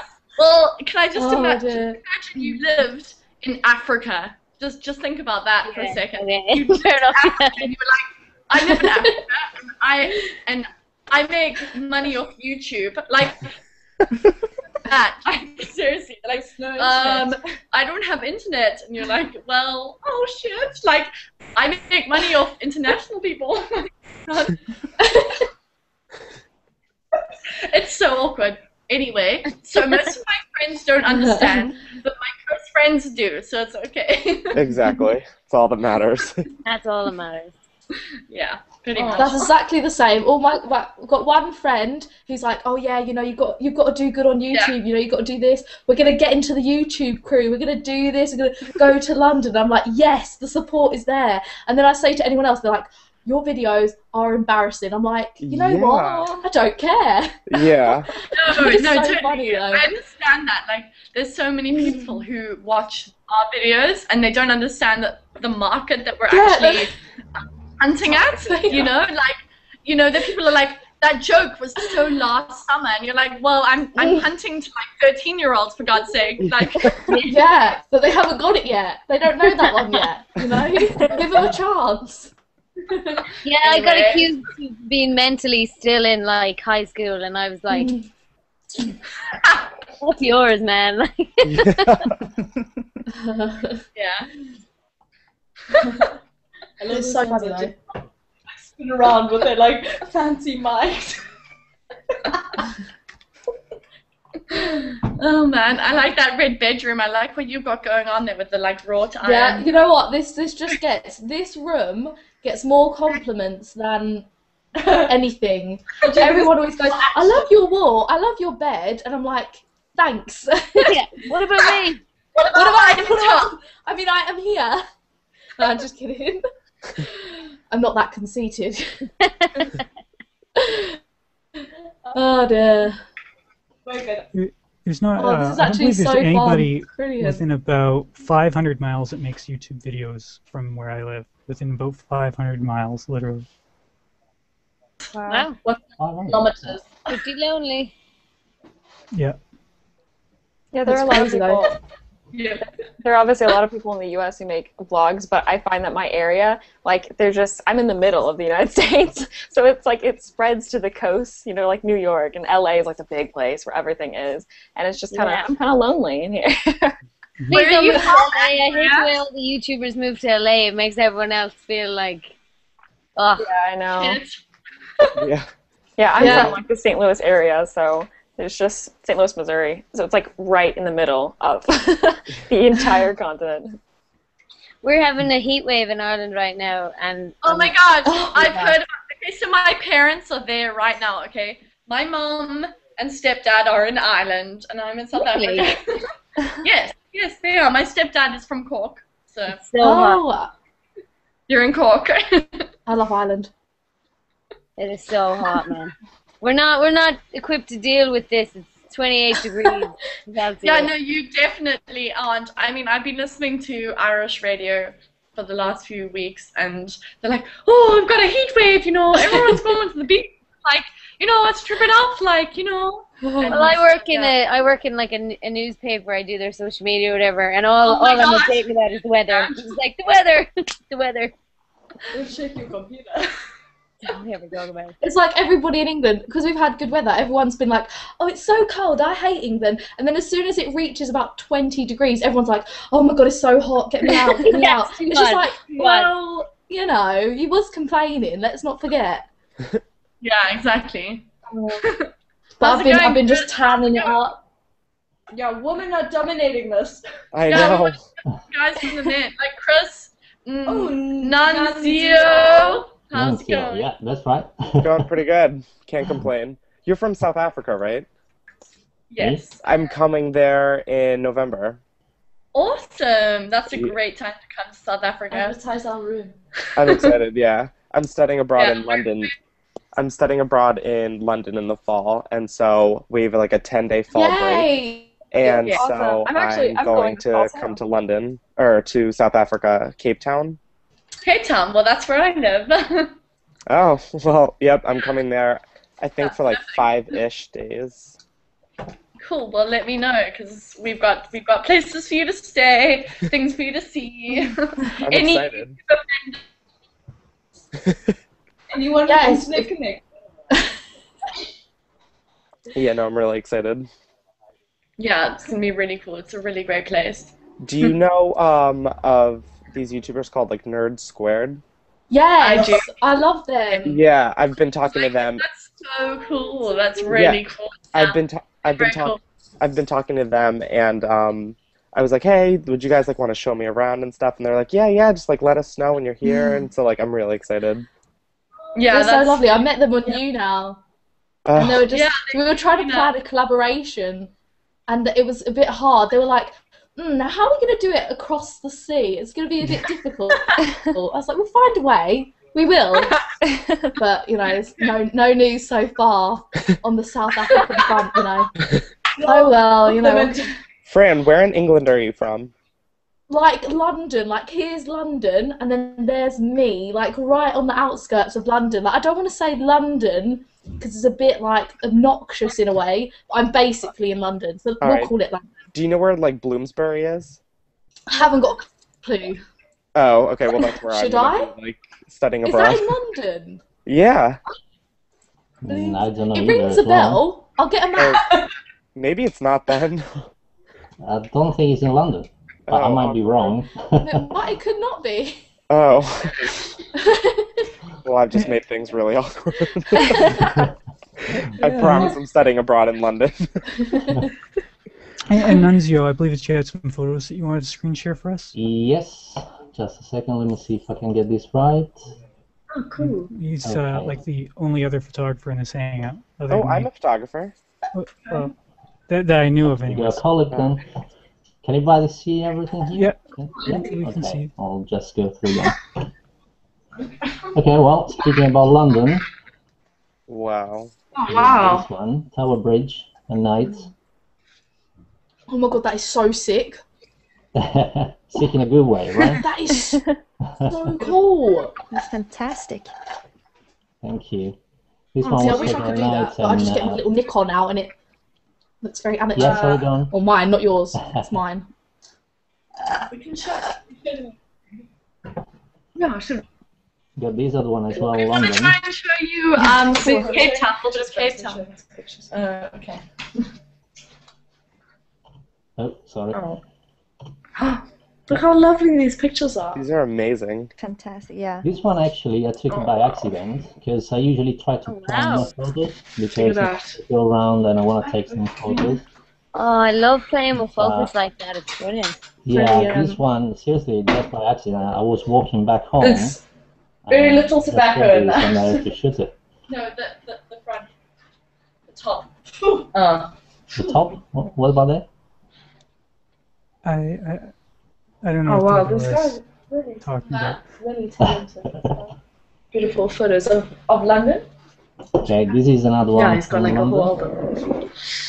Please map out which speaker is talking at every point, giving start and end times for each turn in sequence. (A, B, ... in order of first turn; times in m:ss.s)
0:00.4-0:13.5 A
0:01.2-0:02.6 B
0:05.6-0:07.7 C
0:08.6-0:09.2 B
0:14.9-0:24.6 A
0:16.3-0:17.3 D
0:27.7-0:34.7 A
0:31.1-0:31.7 B
0:34.5-0:36.4 E
0:36.6-0:37.6 C
0:38.3-0:39.5 A
0:38.9-0:39.5 D
0:39.2-1:00.0 B
0:55.4-0:56.3 E
0:57.5-0:58.1 E
0:58.4-1:06.9 A
1:01.7-1:02.2 B
1:06.3-1:06.9 B
1:07.8-1:17.3 A
1:08.1-1:09.0 B
1:11.8-1:12.1 B
1:14.0-1:14.3 B
1:17.1-1:17.4 C
1:17.2-1:22.3 B
1:23.4-1:28.0 C
1:23.6-1:24.3 A
1:27.7-1:28.0 B
1:30.0-1:32.1 C
1:31.4-1:32.1 E
1:33.1-1:33.8 B
1:34.0-1:34.3 A
1:36.8-1:37.7 B
1:36.9-1:37.7 D
1:38.6-1:41.2 D
1:45.2-1:49.7 A
1:49.2-1:54.3 B
1:55.1-2:01.0 B
1:56.0-1:57.5 D
2:00.8-2:02.0 C
2:02.4-2:03.6 A
2:02.5-2:04.8 B
2:05.6-2:06.4 B
2:07.7-2:09.1 B
2:09.4-2:09.7 C
2:10.6-2:11.0 B
2:12.1-2:13.0 B
2:13.9-2:14.3 D
2:14.3-2:23.5 F
2:15.2-2:17.4 B
2:25.3-2:25.6 C
2:25.3-2:27.1 A
2:26.0-2:26.8 G
2:27.1-2:27.9 C
2:29.1-2:29.4 F
2:30.7-2:31.8 H
2:30.9-2:31.7 B
2:32.3-2:32.6 A
2:33.0-2:47.0 H
2:45.1-2:45.5 C
2:47.5-2:52.4 C
2:47.5-2:49.2 A
2:53.2-2:53.5 C
2:53.4-2:54.2 H
2:54.0-2:54.4 A
2:55.2-2:55.5 E
2:56.0-3:03.8 H
2:56.2-2:56.6 A
2:56.2-2:56.5 B
3:04.8-3:07.8 C
3:07.4-3:16.0 A
3:08.0-3:08.8 B
3:15.2-3:15.7 C
3:16.6-3:19.6 A
3:19.6-3:20.2 C
3:19.8-3:20.5 B
3:21.5-3:22.7 A
3:22.9-3:23.5 B
3:24.8-3:30.9 C
3:30.6-3:44.3 A
3:38.7-3:39.6 D
3:43.2-3:43.8 B
3:43.5-3:51.3 C
3:47.8-3:48.7 A
3:49.3-3:49.8 A
3:52.1-3:53.3 D
3:54.0-3:55.0 C
3:55.0-4:09.3 B
4:04.4-4:06.2 C
4:05.6-4:06.4 D
4:10.2-4:11.3 A
4:11.5-4:11.8 D
4:11.8-4:12.1 A
4:12.6-4:14.4 B
4:12.6-4:14.2 A
4:15.3-4:17.0 D
4:17.3-4:18.0 E
4:17.5-4:23.9 A
4:20.7-4:23.1 D
4:23.1-4:25.1 G
4:24.8-4:28.1 E
4:26.0-4:26.3 G
4:29.1-4:29.6 A
4:29.2-4:29.4 G
4:29.6-4:31.8 E
4:32.5-4:35.6 A
4:35.3-4:36.4 D
4:36.8-4:39.3 E
4:36.8-4:37.1 A
4:38.6-4:39.3 A
4:39.9-4:44.7 E
4:44.1-4:45.8 B
4:45.3-4:50.6 E
4:45.4-4:45.8 A
4:46.2-4:47.5 H
4:51.2-4:53.1 A
4:53.7-4:58.2 E
4:56.2-4:56.9 A
4:59.2-5:06.4 A
5:05.0-5:05.8 E
5:08.7-5:10.0 D
5:09.1-5:09.7 B
5:12.7-5:13.9 E
5:15.0-5:17.3 A
5:17.6-5:21.6 E
5:22.1-5:24.0 B
5:22.4-5:22.9 A
5:23.8-5:25.4 E
5:24.9-5:28.2 A
5:27.1-5:27.4 E
5:27.9-5:37.9 E
5:28.8-5:29.2 A
5:36.3-5:36.6 B
5:38.8-5:40.2 A
5:38.9-5:40.8 B
5:41.4-5:41.9 E
5:41.6-5:44.3 B
5:41.9-5:43.2 A
5:44.9-5:53.2 B
5:53.5-5:53.8 H
5:54.0-5:58.5 B
5:59.2-6:00.5 D
5:59.2-6:00.4 B
6:00.9-6:02.5 E
6:03.3-6:15.5 B
6:14.8-6:15.1 E
6:15.7-6:17.4 E
6:18.1-6:19.4 B
6:19.9-6:22.9 E
6:20.6-6:21.5 B
6:22.4-6:23.6 B
6:23.8-6:24.4 E
6:25.6-6:27.2 G
6:25.7-6:28.2 B
6:28.9-6:30.3 E
6:31.0-6:34.3 G
6:32.7-6:33.5 E
6:34.0-6:35.4 B
6:35.7-6:36.6 E
6:37.0-6:37.6 B
6:38.0-6:40.4 E
6:40.0-6:40.6 B
6:40.4-6:40.7 G
6:41.6-6:43.6 E
6:41.6-6:42.1 F
6:45.2-6:48.5 F
6:48.5-6:52.0 G
6:52.7-6:53.3 D
6:53.0-6:56.9 F
6:53.6-6:54.2 G
6:56.5-6:57.5 E
6:57.9-6:58.5 F
6:59.1-7:00.2 F
6:59.9-7:00.8 G
7:01.6-7:05.8 G
7:03.0-7:04.5 F
7:07.5-7:09.2 G
7:10.3-7:10.9 E
7:11.3-7:13.9 G
7:15.5-7:16.8 B
7:17.6-7:19.5 G
7:19.4-7:20.1 B
7:20.5-7:21.0 G
7:20.7-7:21.7 B
7:21.9-7:22.9 I
7:24.0-7:24.6 G
7:25.2-7:27.0 G
7:25.2-7:28.0 B
7:25.4-7:25.9 D
7:28.8-7:31.7 B
7:29.4-7:30.1 G
7:29.4-7:29.8 D
7:31.0-7:31.4 G
7:33.1-7:33.8 A
7:36.0-7:36.4 D
7:37.2-7:38.8 G
7:38.1-7:41.6 A
7:39.6-7:43.0 D
7:40.0-7:40.5 B
7:42.3-7:42.9 A
7:45.8-7:46.5 G
7:46.3-7:46.6 D
7:47.6-7:49.9 D
7:49.7-7:50.7 E
7:50.8-7:51.7 I
7:51.6-7:59.0 G
7:52.7-7:53.2 D
7:54.9-7:55.5 C
7:56.3-7:57.0 D
7:58.0-7:59.0 D
7:59.5-8:02.2 C
8:00.7-8:01.1 G
8:02.4-8:06.4 G
8:02.5-8:03.2 D
8:06.0-8:06.4 D
8:07.1-8:09.3 G
8:07.1-8:08.9 D
8:09.7-8:10.9 A
8:11.9-8:12.3 A
8:12.9-8:13.3 D
8:13.7-8:15.1 G
8:16.8-8:17.5 F
8:18.2-8:19.4 F
8:18.5-8:22.0 D
8:20.0-8:20.6 F
8:21.2-8:22.0 G
8:22.7-8:24.5 D
8:25.2-8:27.2 G
8:26.1-8:27.6 D